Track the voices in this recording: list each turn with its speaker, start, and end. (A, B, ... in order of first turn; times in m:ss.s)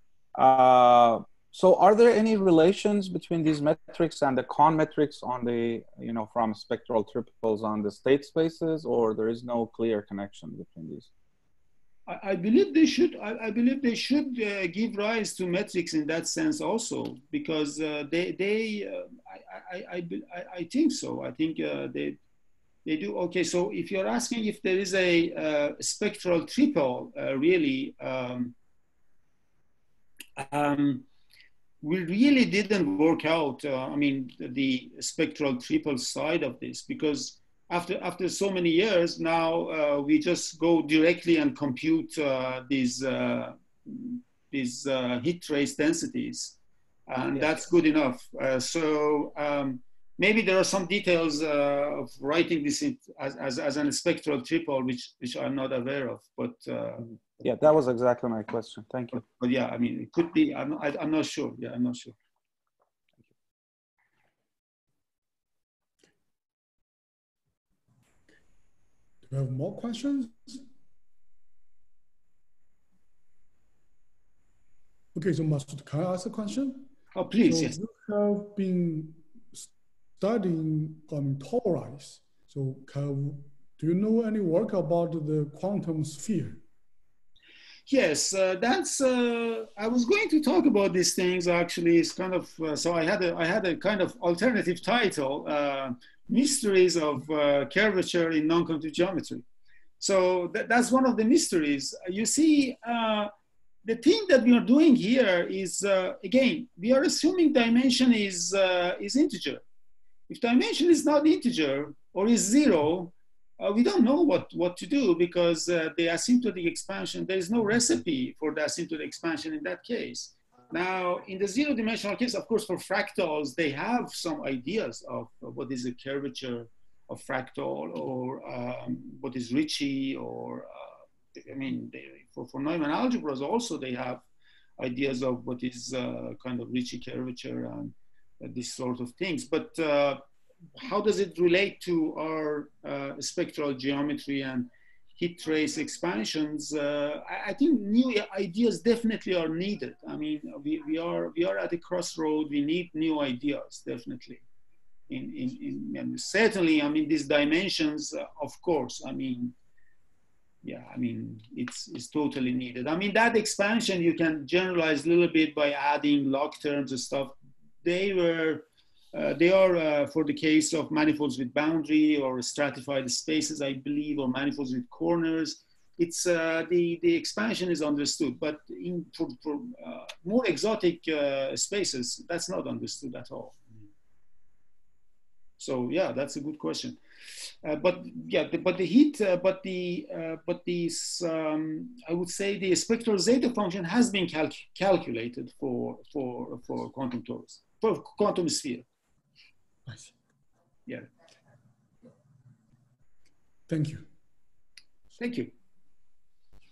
0:00.4-0:11.1 A
0:12.1-0:22.2 B
0:22.8-0:28.6 B
0:30.4-0:31.1 B
0:31.8-0:57.2 B
0:57.4-0:59.2 A
0:59.1-1:02.2 B
1:09.3-1:10.6 C
1:15.1-1:16.9 C
1:17.1-1:17.8 B
1:17.5-1:26.6 C
1:27.9-1:39.4 B
1:40.0-1:43.3 B
1:43.8-1:49.6 B
1:50.3-2:14.2 B
2:14.8-2:20.2 B
2:20.8-2:34.4 B
2:35.1-2:39.6 B
2:40.6-3:03.6 B
3:05.6-3:07.0 B
3:07.6-3:18.9 B
3:19.9-3:20.1 C
3:23.7-3:24.1 C
3:25.2-3:25.5 B